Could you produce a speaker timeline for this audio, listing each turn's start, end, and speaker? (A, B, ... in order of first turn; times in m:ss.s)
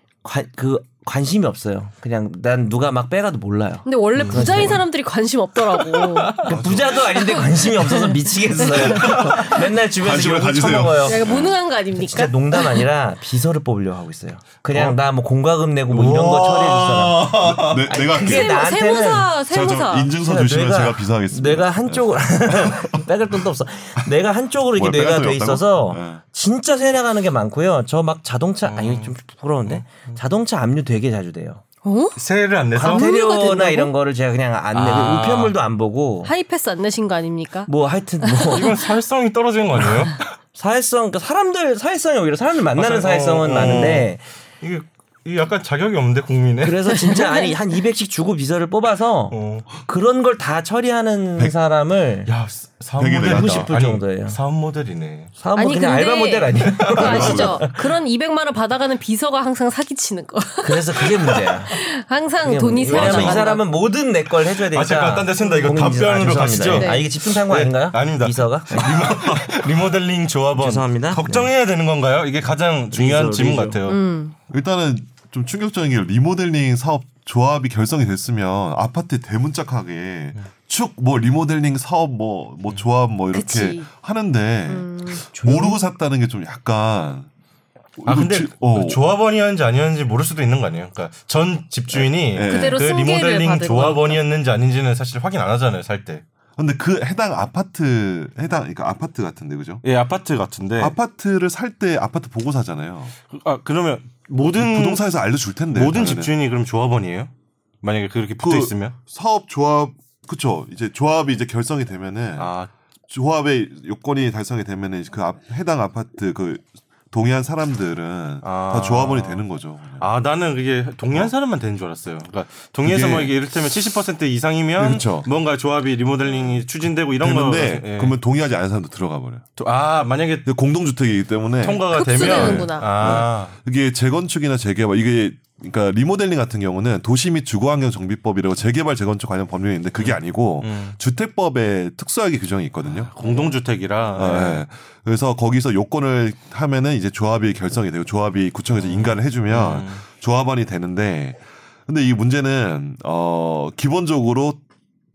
0:00.2-0:04.8 A
0:03.8-0:06.4 B
0:04.2-0:04.8 C
0:05.9-0:06.9 C
0:06.4-0:11.3 A
0:06.5-0:07.0 D
0:07.1-0:09.6 B
0:08.8-0:11.6 D
0:11.0-0:12.9 B
0:12.1-0:19.3 A
0:16.0-0:18.7 D
0:16.3-0:17.1 C
0:18.2-0:20.2 B
0:19.5-0:23.1 D
0:20.1-0:31.6 A
0:24.7-0:26.2 D
0:28.6-0:29.1 C
0:29.6-0:30.2 C
0:31.8-0:32.2 B
0:32.2-0:33.1 C
0:32.7-0:36.3 A
0:32.8-0:33.9 B
0:34.7-0:35.6 C
0:36.2-0:37.7 B
0:37.7-0:38.8 A
0:38.2-0:38.6 B
0:38.5-0:40.3 C
0:40.5-0:44.2 A
0:42.7-0:46.9 C
0:46.6-0:52.3 A
0:46.9-0:47.6 B
0:49.3-0:49.7 C
0:52.2-0:55.3 C
0:53.0-0:53.7 D
0:53.2-0:54.4 A
0:55.4-0:57.9 A
0:55.6-1:03.6 B
0:56.6-0:57.1 C
0:56.9-0:57.7 D
1:00.6-1:01.8 A
1:02.4-1:09.1 A
1:02.8-1:03.6 C
1:03.0-1:03.4 D
1:04.6-1:14.0 C
1:05.4-1:05.7 B
1:06.7-1:07.1 B
1:09.0-1:09.4 D
1:10.5-1:11.5 A
1:12.9-1:13.8 A
1:13.8-1:14.3 B
1:14.5-1:27.3 D
1:23.3-1:23.9 B
1:24.7-1:25.2 B
1:25.3-1:25.8 A
1:28.0-1:29.0 D
1:28.1-1:36.2 C
1:31.9-1:32.8 D
1:32.5-1:34.2 B
1:36.6-1:39.8 D
1:39.8-1:40.9 C
1:40.8-1:43.1 D
1:43.3-1:45.1 C
1:44.6-1:46.3 D
1:45.7-1:47.3 C
1:47.8-1:48.9 C
1:48.4-1:52.5 D
1:52.4-1:52.7 C
1:53.1-2:00.0 D
1:58.4-1:59.4 C
2:00.0-2:08.2 C
2:02.8-2:03.3 D
2:04.8-2:05.3 D
2:06.2-2:06.6 D
2:07.2-2:09.4 D
2:09.6-2:10.5 C
2:10.4-2:23.5 D
2:11.6-2:13.5 C
2:11.9-2:12.9 B
2:20.0-2:21.0 C
2:22.8-2:24.6 C
2:24.1-2:34.6 D
2:28.8-2:30.0 C